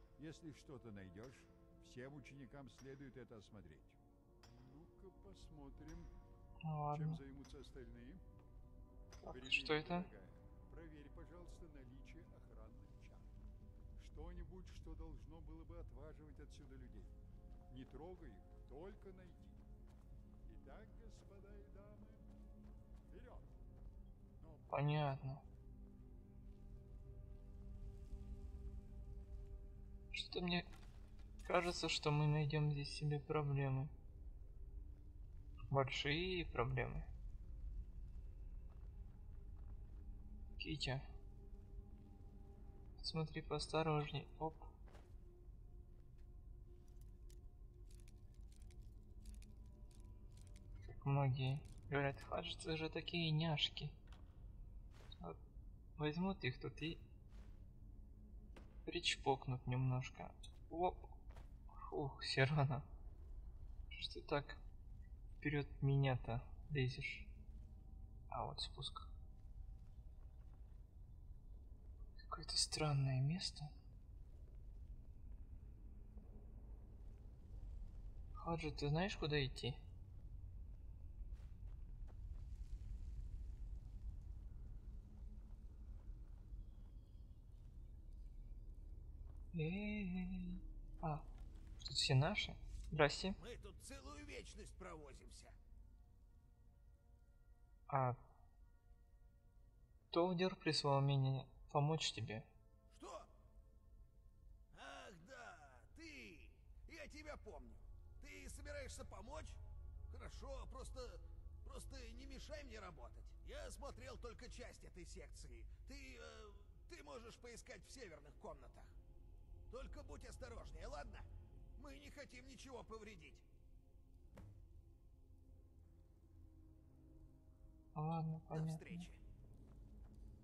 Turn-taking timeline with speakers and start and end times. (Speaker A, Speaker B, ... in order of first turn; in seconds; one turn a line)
Speaker A: 0.2-6.1
Speaker B: 6.6-7.2
Speaker A: 6.9-8.2
Speaker B: 9.2-10.1
Speaker A: 9.2-13.3
Speaker A: 13.9-17.2
Speaker A: 17.7-19.6
Speaker A: 20.4-22.3
Speaker A: 23.1-23.5
Speaker A: 24.4-24.8
Speaker B: 24.7-25.4
Speaker B: 30.1-30.6
Speaker B: 31.4-33.9
Speaker B: 35.7-37.1
Speaker B: 40.6-41.0
Speaker B: 43.0-44.7
Speaker B: 50.8-53.9
Speaker B: 56.0-57.0
Speaker B: 58.9-61.1
Speaker B: 61.8-62.9
Speaker B: 63.9-64.6
Speaker B: 65.4-67.3
Speaker B: 68.3-69.1
Speaker B: 72.2-73.7
Speaker B: 78.4-79.8
Speaker B: 89.5-91.3
Speaker B: 91.8-93.4
Speaker C: 93.4-95.5
Speaker B: 97.9-98.2
Speaker B: 100.1-102.5
Speaker C: 102.9-103.3
Speaker C: 104.7-118.9
Speaker C: 119.7-123.4
Speaker B: 127.9-129.1
Speaker C: 128.5-129.2